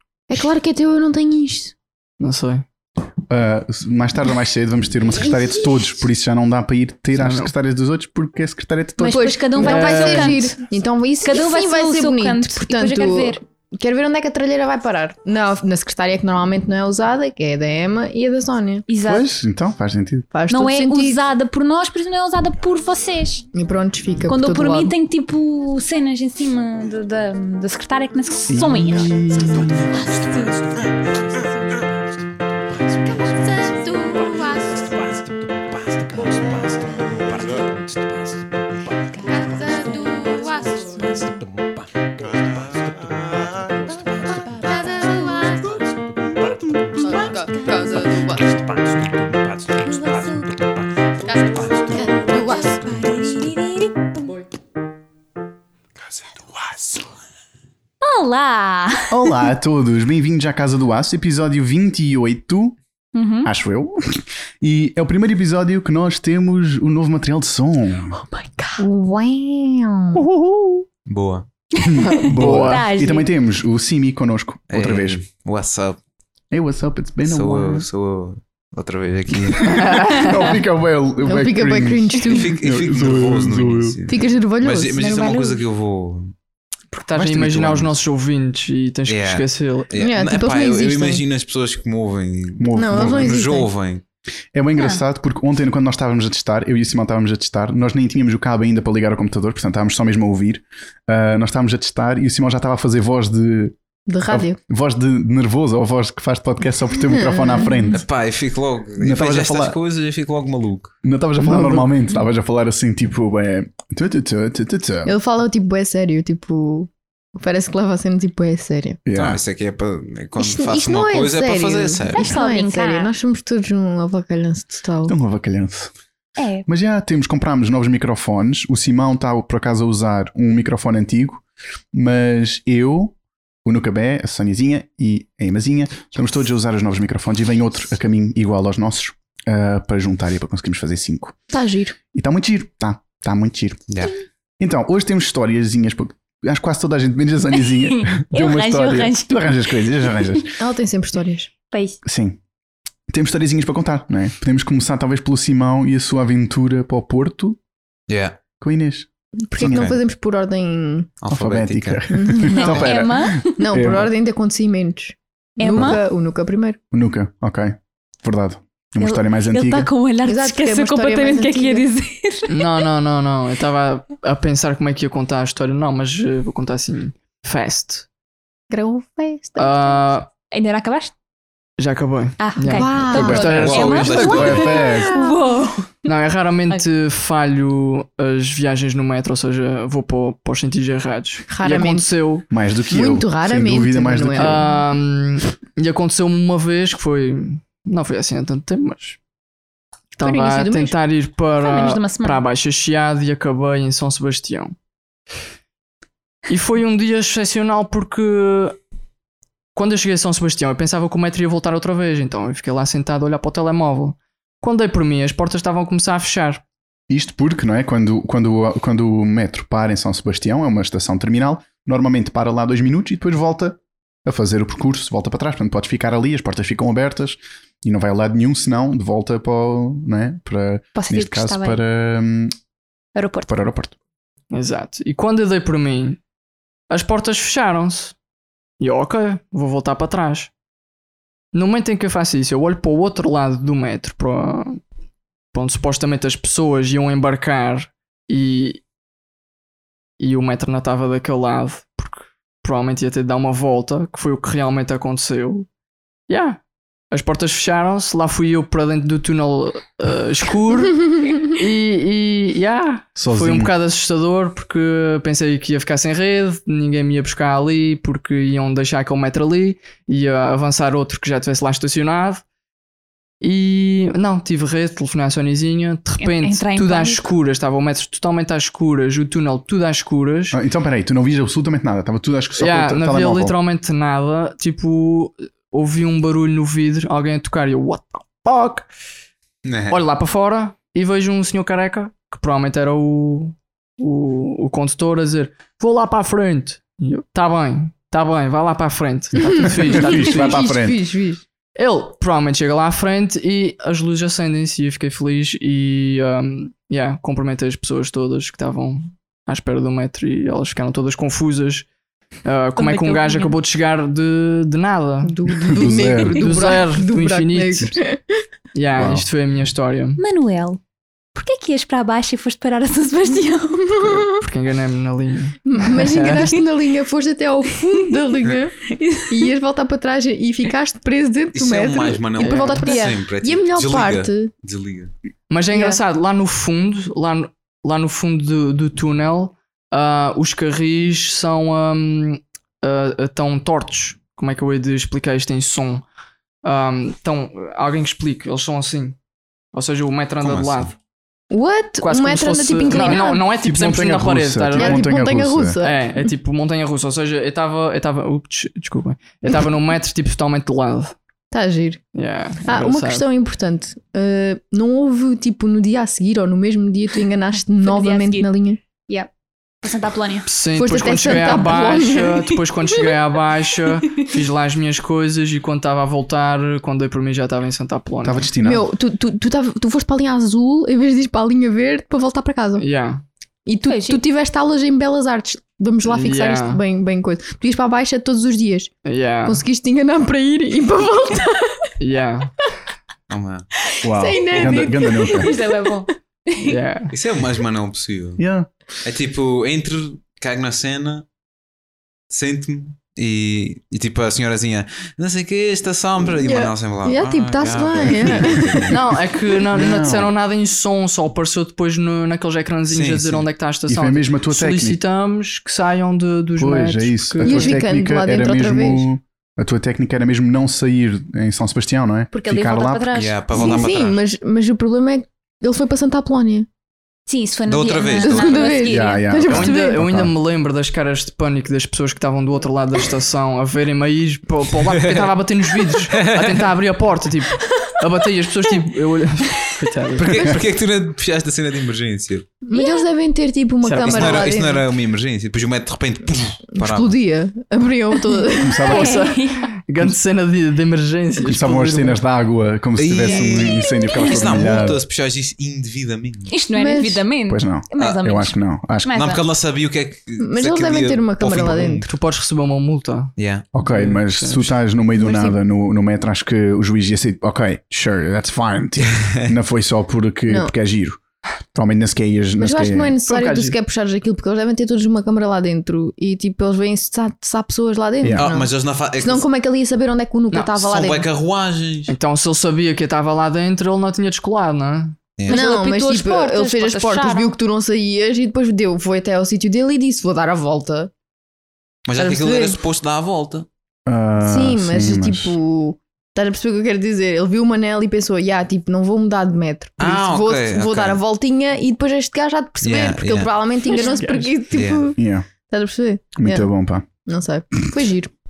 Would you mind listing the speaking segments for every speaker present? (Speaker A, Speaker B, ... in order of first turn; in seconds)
Speaker A: 0.3-1.8, 9.1-18.9, 20.3-21.2, 23.5-24.9, 33.1-35.0, 39.3-41.2, 44.5-45.8, 47.0-48.5, 51.2-52.8, 68.8-70.2, 81.2-82.5, 84.1-85.0, 89.9-91.2, 92.7-93.7, 104.1-104.6, 107.1-107.9, 115.0-119.0, 120.4-125.1, 141.5-142.0, 150.6-151.5, 159.4-161.1, 162.1-162.9, 163.6-166.8, 170.2-171.8, 178.7-180.1, 182.7-183.8, 191.5-192.1, 192.9-194.7, 200.2-200.9, 299.5-301.4, 315.2-318.2, 323.8-324.4, 325.6-334.5, 335.7-336.0, 351.5-353.5, 354.7-356.3, 361.5-362.0, 362.6-368.8, 370.8-373.1, 378.6-382.9, 383.7-388.9, 389.4-391.8, 394.1-395.6, 406.4-408.9, 417.4-419.1, 423.5-426.7, 428.1-430.0, 442.6-444.9, 446.7-449.2, 456.7-457.2, 460.4-462.1, 465.2-465.6, 470.5-470.7, 472.6-481.3, 485.5-491.1, 492.1-492.8, 494.4-506.7, 507.2-508.3
Speaker B: 2.2-2.6, 7.1-7.5, 9.6-10.4, 72.0-72.9, 79.7-80.6, 86.9-89.9, 111.5-111.9, 172.5-178.1, 179.6-180.3, 181.8-184.7, 186.0-192.5, 194.4-199.2, 200.2-204.8, 206.5-208.8, 209.7-216.6, 234.5-236.2, 236.9-238.2, 238.8-240.5, 241.5-244.8, 245.5-248.8, 250.2-255.7, 256.3-256.6, 257.1-272.4, 273.4-280.6, 282.6-288.9, 289.9-300.6, 301.8-311.9, 312.4-318.0, 318.7-320.2, 324.2-326.6, 332.4-332.9, 335.5-346.0, 346.6-349.2, 349.7-351.0, 352.0-355.1, 355.8-361.1, 362.1-363.3, 370.5-378.5, 382.8-383.2, 386.1-386.8, 389.1-389.6, 392.0-392.5, 396.6-397.1, 408.9-417.8, 429.5-440.5, 443.9-444.4, 448.9-452.2, 462.0-464.8, 473.3-473.8, 480.5-480.8, 482.1-485.2, 503.9-504.6
Speaker C: 3.3-9.4, 19.0-20.3, 28.5-30.0, 59.1-62.8, 63.4-68.2, 70.2-70.9, 71.8-75.2, 76.5-77.9, 79.5-84.0, 92.6-93.4, 94.5-103.8, 104.3-108.1, 109.0-109.8, 111.0-115.1, 119.1-119.4, 125.1-125.9, 126.7-141.4, 142.1-143.8, 144.6-150.6, 152.0-152.4, 153.1-157.6, 158.6-159.9, 161.3-164.1, 165.7-166.0, 166.9-169.9, 184.1-185.2, 192.5-194.7, 217.1-232.5, 233.5-233.9, 263.2-263.7, 280.5-283.6, 299.9-301.0, 315.8-316.5, 319.0-319.3, 353.6-355.8, 378.2-378.8, 394.0-395.6, 398.4-398.7, 409.7-410.3, 413.9-415.0, 416.6-423.2, 428.9-430.3, 448.6-449.2, 451.4-455.0, 457.5-459.3, 463.7-471.2, 471.7-473.1, 478.2-478.5, 494.1-495.6, 505.2-505.5, 506.4-507.1
Speaker D: 9.0-10.4, 11.2-13.4, 18.9-19.3, 20.5-23.5, 24.3-30.6, 49.8-50.6, 52.1-54.4, 58.0-59.4, 63.1-63.5, 68.3-68.8, 71.8-73.3, 85.0-85.6, 122.1-123.1, 126.4-126.7, 147.9-150.2, 151.7-152.0, 162.5-163.6, 165.6-166.0, 169.0-172.9, 180.5-181.1, 182.4-186.0, 201.6-202.4, 231.0-231.8, 233.2-233.5, 276.2-277.3, 312.8-313.6, 320.2-320.8, 321.3-324.0, 328.9-329.4, 367.8-368.5, 369.8-370.5, 383.9-384.2, 394.5-396.8, 422.3-423.7, 427.3-429.7, 442.7-443.1, 448.8-449.7, 453.4-454.8, 456.5-458.5, 459.0-459.4, 485.5-487.5
Speaker E: 71.1-71.5, 74.7-76.0, 77.2-80.0, 82.3-86.3, 87.1-87.9, 89.1-94.0, 107.9-111.0, 119.2-122.4, 143.9-144.1, 158.1-158.4, 159.6-160.0, 161.2-162.9, 183.1-184.8, 289.6-290.0, 331.5-335.1, 350.4-350.9, 393.3-393.7, 397.1-398.4, 399.0-401.3, 402.3-409.0, 412.9-413.4, 423.1-424.2, 427.7-428.8, 434.9-435.3, 436.1-436.6, 440.2-442.5, 444.0-447.2, 453.0-456.6, 458.0-458.4, 459.1-462.1, 463.4-463.7, 469.1-469.5, 478.4-479.4, 480.8-482.1, 492.1-493.7, 500.0-501.2, 502.8-503.5, 504.7-505.1